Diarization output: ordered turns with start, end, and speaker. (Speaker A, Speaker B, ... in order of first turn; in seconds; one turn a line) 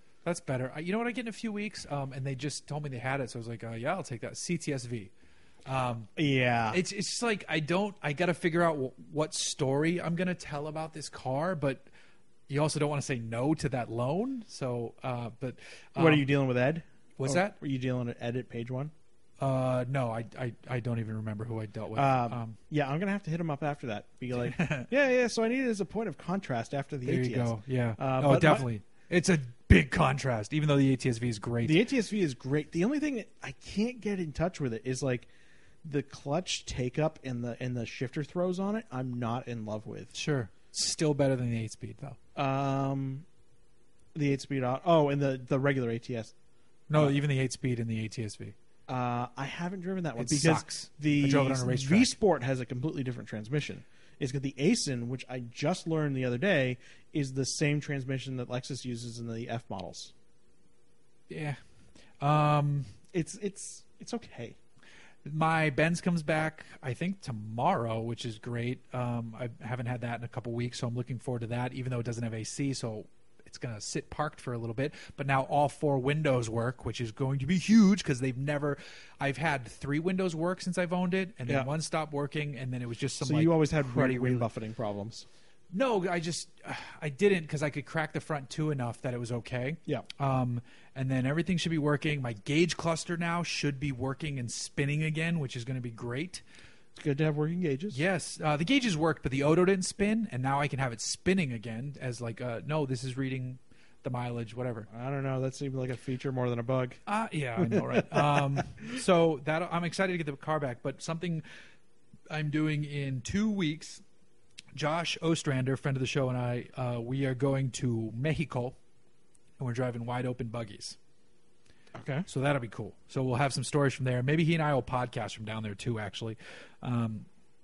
Speaker A: 0.2-5.1
Speaker A: 5.7-6.1
Speaker B: 6.2-6.8
Speaker A: 6.7-11.8
Speaker A: 12.5-16.2
Speaker B: 15.9-18.9
Speaker A: 17.2-17.5
Speaker A: 19.4-22.6
Speaker B: 21.9-28.7
Speaker A: 24.4-24.9
Speaker A: 27.0-31.8
Speaker B: 31.6-35.3
Speaker B: 35.8-40.1
Speaker A: 40.1-42.2
Speaker B: 42.4-43.2
Speaker B: 44.1-46.3
Speaker A: 46.9-48.5
Speaker B: 48.9-60.1
Speaker A: 50.2-52.1
Speaker A: 61.3-61.6
Speaker A: 62.2-62.9
Speaker B: 63.1-64.6
Speaker A: 65.2-84.5
Speaker B: 83.2-85.2
Speaker A: 85.7-96.4
Speaker B: 97.0-98.0
Speaker A: 97.9-104.9
Speaker B: 104.9-107.0
Speaker A: 107.0-111.4
Speaker B: 107.6-108.4
Speaker A: 112.3-114.0
Speaker A: 114.7-118.8
Speaker A: 119.6-121.0
Speaker B: 122.0-122.3
Speaker A: 122.3-127.3